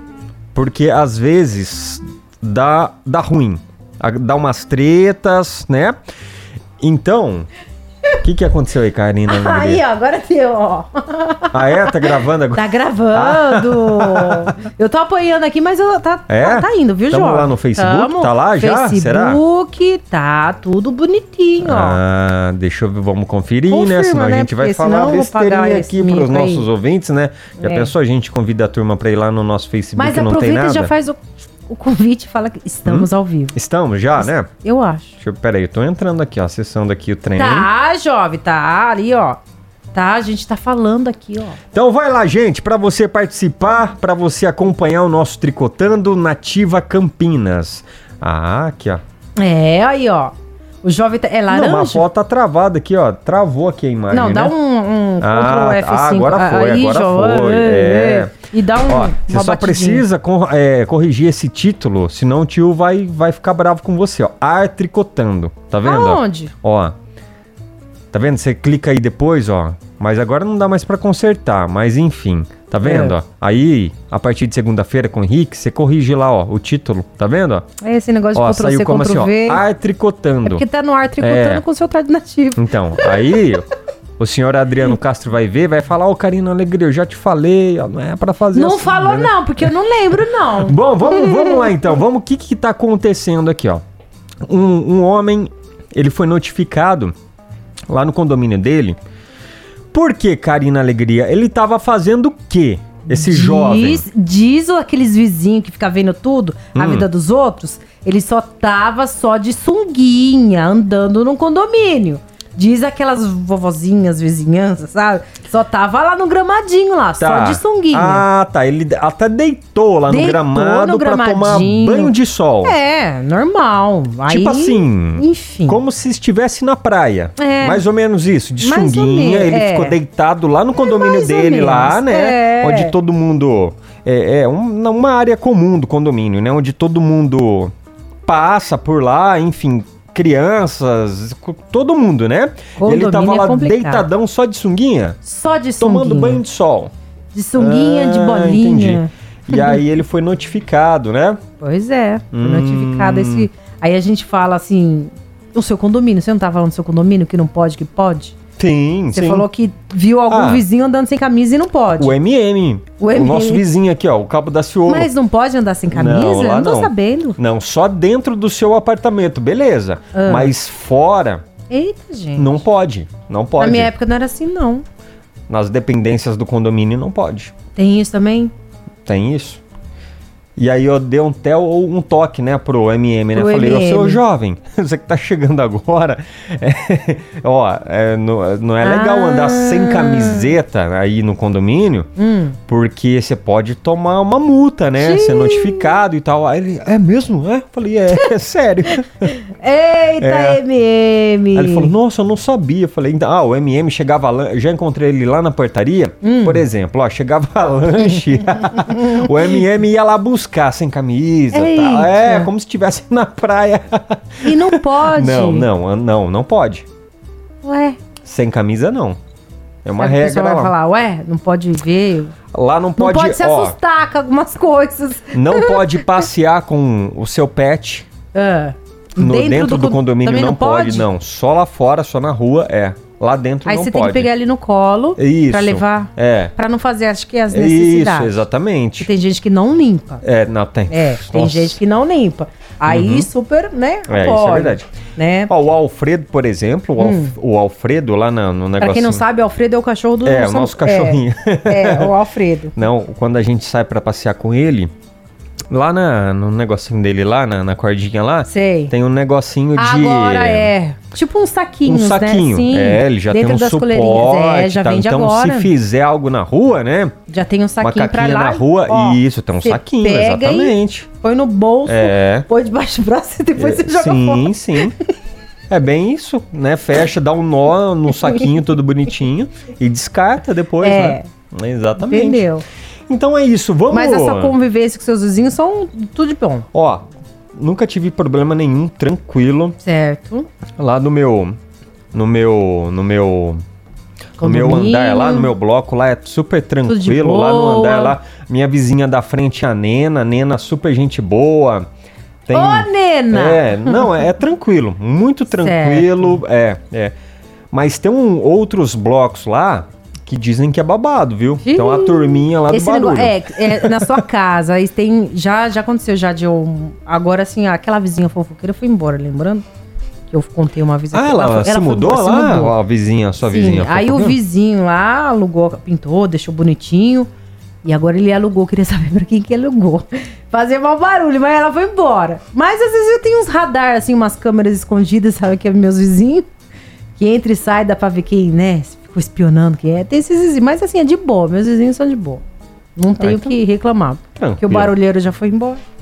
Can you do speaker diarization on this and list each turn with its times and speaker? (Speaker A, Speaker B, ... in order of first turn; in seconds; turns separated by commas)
Speaker A: 0.5-6.0, Speaker A: 6.8-7.5, Speaker A: 8.2-9.8, Speaker B: 9.3-22.0, Speaker A: 11.5-14.5, Speaker A: 16.3-19.4, Speaker A: 21.6-30.9, Speaker B: 23.7-26.7, Speaker B: 27.6-27.9, Speaker B: 30.0-31.2, Speaker B: 31.7-33.6, Speaker A: 32.9-34.5, Speaker B: 34.2-35.1, Speaker A: 35.2-37.7, Speaker B: 37.4-39.4, Speaker B: 39.9-41.6, Speaker A: 41.7-49.0, Speaker B: 49.4-52.1, Speaker A: 51.5-54.5, Speaker B: 54.1-60.1, Speaker A: 55.2-58.3, Speaker A: 58.9-67.0, Speaker B: 65.8-66.5, Speaker A: 68.1-77.7, Speaker B: 72.8-73.2, Speaker B: 77.8-79.6, Speaker A: 78.3-80.6, Speaker B: 80.4-83.6, Speaker A: 81.2-81.6, Speaker A: 82.6-89.3, Speaker B: 88.5-92.0, Speaker A: 90.6-93.8, Speaker A: 94.5-97.1, Speaker A: 97.9-99.0, Speaker A: 99.9-104.1, Speaker B: 103.1-118.3, Speaker A: 106.7-107.1, Speaker A: 117.2-122.8, Speaker B: 120.1-125.8, Speaker A: 124.3-137.7, Speaker B: 127.4-127.8, Speaker B: 128.6-130.0, Speaker B: 130.8-132.9, Speaker A: 138.3-145.2, Speaker B: 142.8-144.1, Speaker B: 145.2-146.4, Speaker A: 145.8-146.9, Speaker B: 147.3-149.8, Speaker A: 147.6-151.4, Speaker B: 151.6-158.4, Speaker A: 152.3-153.5, Speaker A: 158.6-159.5, Speaker B: 159.1-162.2, Speaker A: 160.3-160.7, Speaker A: 162.0-165.1, Speaker B: 163.0-163.7, Speaker B: 164.9-167.4, Speaker A: 165.9-171.4, Speaker B: 170.1-170.5, Speaker B: 171.7-172.6, Speaker A: 172.4-173.9, Speaker B: 173.6-174.8, Speaker A: 175.5-177.5, Speaker B: 177.8-178.5, Speaker A: 179.1-179.6, Speaker A: 180.6-192.1, Speaker B: 183.3-184.2, Speaker B: 188.8-190.6, Speaker B: 192.2-192.6, Speaker A: 192.7-199.4, Speaker B: 195.0-196.0, Speaker B: 198.9-201.9, Speaker A: 200.2-200.6, Speaker A: 201.5-216.9, Speaker B: 206.2-206.7, Speaker B: 211.5-212.5, Speaker B: 214.4-215.7, Speaker B: 217.6-218.0, Speaker A: 218.2-219.2, Speaker A: 219.8-220.8, Speaker B: 220.0-222.3, Speaker A: 222.5-223.8, Speaker B: 223.0-226.3, Speaker A: 225.3-228.1, Speaker B: 228.3-231.1, Speaker A: 229.2-234.3, Speaker B: 233.7-238.4, Speaker A: 235.2-236.5, Speaker A: 237.5-239.1, Speaker B: 239.0-240.2, Speaker A: 240.2-241.8, Speaker B: 240.9-245.5, Speaker A: 242.9-243.3, Speaker A: 244.1-244.9, Speaker A: 245.5-249.2, Speaker B: 247.0-247.3, Speaker B: 248.8-252.8, Speaker A: 250.2-252.2, Speaker A: 252.8-254.9, Speaker A: 255.7-260.7, Speaker B: 258.5-258.9, Speaker B: 259.8-265.7, Speaker A: 261.9-267.1, Speaker B: 267.3-275.0, Speaker A: 267.8-271.1, Speaker A: 271.9-272.5, Speaker A: 273.6-274.9, Speaker A: 275.7-282.4, Speaker B: 280.8-281.3, Speaker B: 282.0-282.6, Speaker A: 283.1-284.6, Speaker B: 283.9-286.7, Speaker A: 286.7-287.0, Speaker A: 287.6-289.8, Speaker B: 289.8-290.5, Speaker A: 290.8-291.6, Speaker A: 292.1-293.6, Speaker B: 294.4-295.6, Speaker A: 294.4-301.9, Speaker B: 296.9-298.2, Speaker A: 302.5-307.1, Speaker B: 302.5-304.3, Speaker B: 305.5-306.4, Speaker A: 307.7-314.2, Speaker B: 311.6-319.7, Speaker B: 320.3-322.8, Speaker A: 321.1-324.4, Speaker B: 323.4-327.3, Speaker B: 327.9-336.5, Speaker B: 337.2-342.4, Speaker B: 343.0-345.8, Speaker A: 343.2-343.6, Speaker A: 344.4-344.9